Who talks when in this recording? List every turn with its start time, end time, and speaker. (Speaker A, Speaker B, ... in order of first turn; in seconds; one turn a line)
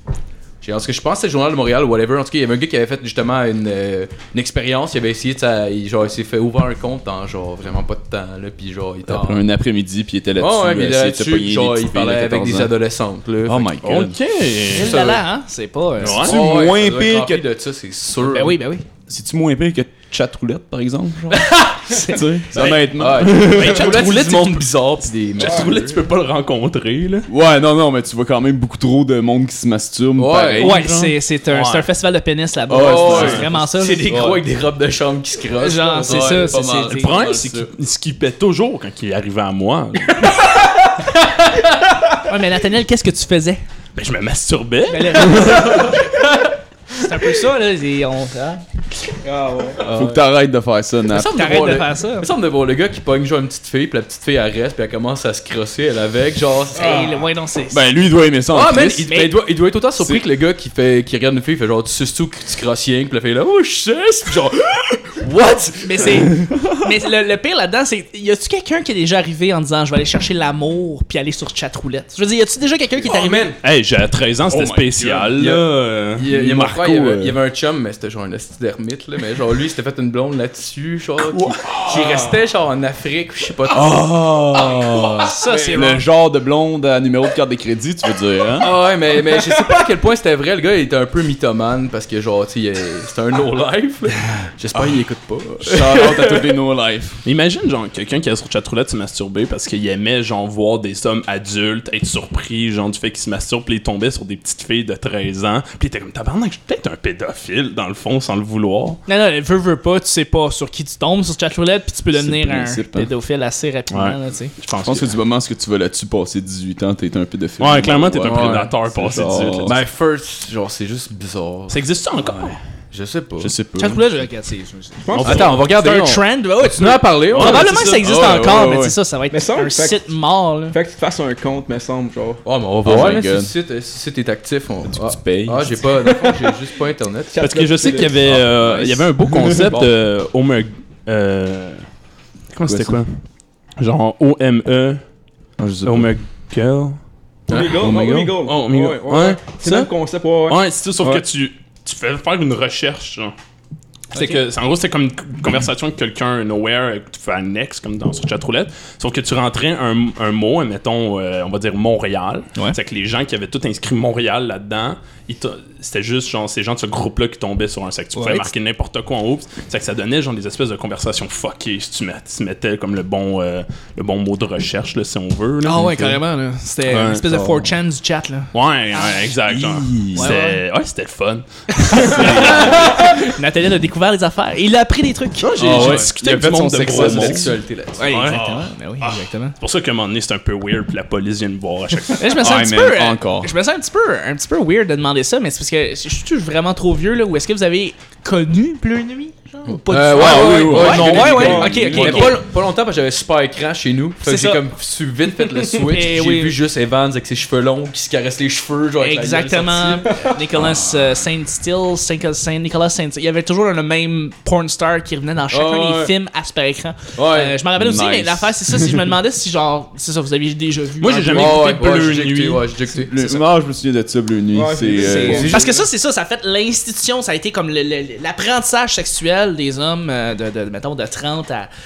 Speaker A: 0.6-9.4
Speaker B: 9.1-12.7
Speaker A: 10.4-13.8
Speaker B: 13.4-14.2
Speaker C: 13.8-15.0
Speaker A: 14.7-15.2
Speaker D: 14.7-16.2
Speaker C: 16.0-16.6
Speaker B: 16.0-17.5
Speaker A: 16.2-18.6
Speaker D: 18.2-18.8
Speaker B: 19.1-21.5
Speaker A: 21.3-26.0
Speaker D: 21.9-22.4
Speaker B: 22.1-24.0
Speaker C: 23.3-24.7
Speaker C: 25.4-27.3
Speaker B: 27.3-31.1
Speaker A: 30.2-30.8
Speaker D: 30.6-34.4
Speaker C: 31.5-31.9
Speaker B: 32.7-33.5
Speaker A: 32.7-37.6
Speaker C: 33.1-33.5
Speaker B: 34.0-34.4
Speaker D: 35.6-37.2
Speaker C: 36.9-40.4
Speaker B: 37.1-37.7
Speaker A: 41.0-41.7
Speaker D: 42.3-43.6
Speaker C: 44.0-45.8
Speaker D: 44.9-46.0
Speaker D: 46.9-48.6
Speaker E: 49.2-49.8
Speaker A: 49.8-50.3
Speaker B: 49.8-51.8
Speaker A: 51.1-57.1
Speaker D: 51.1-52.3
Speaker D: 56.8-57.8
Speaker E: 56.8-57.2
Speaker B: 57.7-59.1
Speaker A: 58.5-66.4
Speaker D: 59.0-59.4
Speaker B: 60.0-60.2
Speaker D: 65.8-73.5
Speaker A: 73.0-73.6
Speaker C: 73.6-76.3
Speaker B: 74.5-75.6
Speaker A: 76.2-84.1
Speaker B: 76.2-77.4
Speaker B: 81.3-82.2
Speaker B: 83.7-88.7
Speaker A: 85.2-85.9
Speaker D: 85.2-86.0
Speaker A: 88.6-96.5
Speaker B: 95.5-97.2
Speaker C: 97.2-109.0
Speaker D: 109.1-114.5
Speaker B: 112.1-113.1
Speaker C: 113.9-115.2
Speaker B: 114.8-119.8
Speaker C: 117.6-119.8
Speaker A: 118.2-118.7
Speaker A: 119.6-121.8
Speaker C: 121.7-122.6
Speaker A: 122.9-123.5
Speaker B: 123.4-124.1
Speaker D: 123.8-130.8
Speaker E: 125.0-125.5
Speaker C: 125.1-125.6
Speaker A: 125.2-127.9
Speaker C: 127.3-128.0
Speaker B: 127.7-129.0
Speaker E: 129.3-130.1
Speaker E: 130.7-132.4
Speaker A: 132.4-137.4
Speaker B: 132.8-133.5
Speaker B: 134.8-135.9
Speaker E: 137.3-138.3
Speaker C: 137.4-141.8
Speaker A: 138.0-139.9
Speaker B: 139.3-139.8
Speaker C: 142.5-143.1
Speaker B: 142.7-143.0
Speaker C: 143.8-145.0
Speaker B: 145.6-146.1
Speaker C: 145.8-147.0
Speaker A: 147.5-148.3
Speaker E: 147.5-150.6
Speaker B: 147.8-148.3
Speaker C: 148.4-149.9
Speaker C: 150.5-153.3
Speaker D: 154.1-154.4
Speaker C: 154.1-176.1
Speaker D: 168.2-168.5
Speaker D: 175.6-179.1
Speaker B: 175.8-176.1
Speaker C: 176.9-177.2
Speaker B: 177.3-177.7
Speaker C: 178.5-183.1
Speaker B: 179.5-180.3
Speaker D: 180.2-180.6
Speaker D: 181.7-185.5
Speaker B: 182.2-182.8
Speaker A: 182.4-182.8
Speaker C: 185.4-187.5
Speaker B: 185.6-187.6
Speaker A: 185.6-188.3
Speaker D: 188.0-189.6
Speaker C: 188.1-188.4
Speaker B: 188.3-188.6
Speaker C: 189.6-192.3
Speaker D: 192.2-202.4
Speaker B: 192.3-193.5
Speaker A: 199.9-210.4
Speaker B: 200.1-202.3
Speaker C: 200.7-202.2
Speaker D: 204.2-204.6
Speaker D: 205.8-206.6
Speaker D: 209.0-221.7
Speaker A: 215.5-216.1
Speaker A: 217.2-217.6
Speaker B: 217.8-219.0
Speaker C: 221.0-222.7
Speaker A: 221.3-223.4
Speaker B: 222.9-225.6
Speaker E: 224.5-225.8
Speaker D: 225.0-231.7
Speaker A: 225.2-225.7